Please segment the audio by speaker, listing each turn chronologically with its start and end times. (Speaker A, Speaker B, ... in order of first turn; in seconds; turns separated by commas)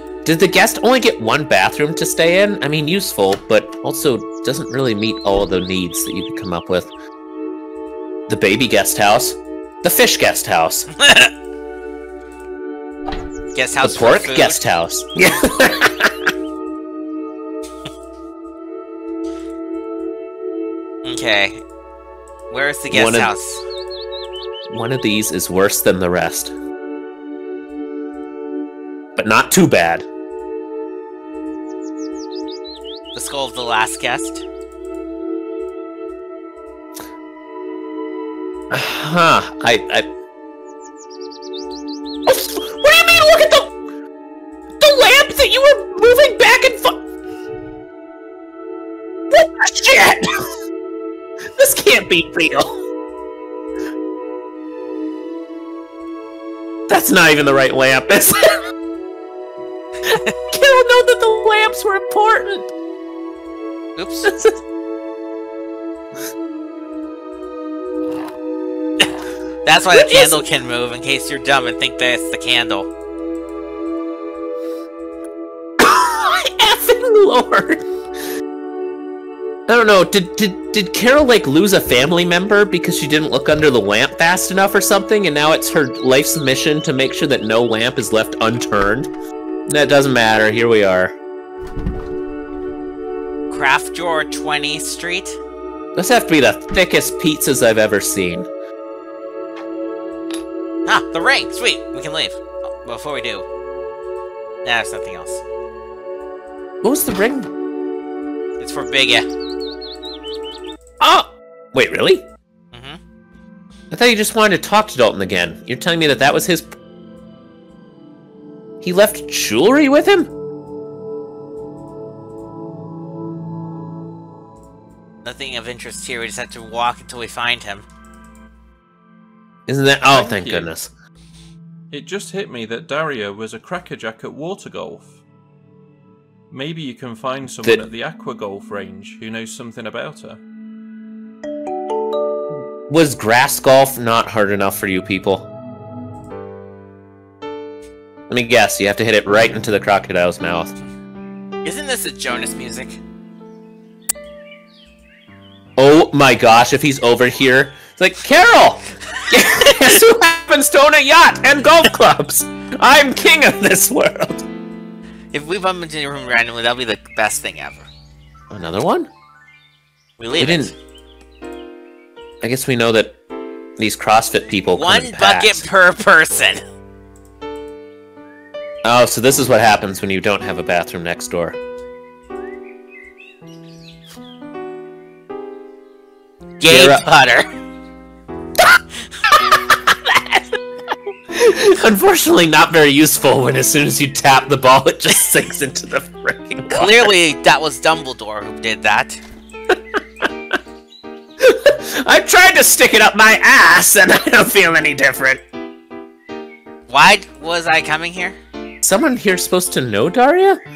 Speaker A: 0.2-6.9, Speaker A: 8.3-10.9, Speaker B: 11.0-11.3, Speaker B: 13.5-14.6, Speaker A: 13.8-16.3, Speaker B: 21.0-21.6, Speaker B: 22.5-23.6, Speaker A: 22.9-23.3, Speaker A: 24.7-26.5, Speaker A: 29.1-30.1, Speaker B: 33.1-34.5, Speaker A: 38.7-40.1, Speaker A: 42.2-43.7, Speaker A: 44.8-47.0, Speaker A: 49.3-50.4, Speaker A: 51.5-52.8, Speaker A: 56.9-58.6, Speaker A: 60.1-62.7, Speaker B: 64.0-64.3, Speaker A: 64.2-64.5, Speaker B: 69.6-72.9, Speaker A: 69.9-70.4, Speaker A: 75.8-77.8, Speaker A: 79.7-89.1, Speaker A: 89.7-91.1, Speaker B: 93.5-95.4, Speaker A: 95.9-98.5, Speaker B: 100.8-103.4, Speaker B: 104.6-105.4, Speaker A: 106.8-107.5, Speaker B: 108.6-109.2, Speaker A: 111.0-112.2, Speaker B: 112.7-113.0, Speaker A: 113.9-116.7, Speaker A: 118.8-120.3, Speaker B: 125.2-127.8, Speaker A: 129.7-130.9, Speaker C: 130.1-130.7, Speaker C: 131.9-135.2, Speaker C: 136.5-140.4, Speaker A: 142.9-145.5, Speaker A: 148.3-150.8, Speaker B: 151.6-153.0, Speaker A: 155.8-164.4, Speaker B: 159.4-159.9, Speaker B: 165.3-167.9, Speaker A: 168.5-169.1, Speaker B: 170.2-170.7, Speaker A: 170.4-170.7, Speaker A: 172.4-173.2, Speaker A: 173.8-175.6, Speaker B: 174.7-176.6, Speaker A: 178.8-181.6, Speaker B: 186.6-187.4, Speaker A: 186.6-187.0, Speaker A: 189.5-190.5, Speaker A: 191.3-197.1, Speaker B: 196.7-199.2, Speaker A: 199.7-200.3, Speaker A: 201.4-205.4, Speaker B: 206.9-208.4, Speaker A: 208.8-210.6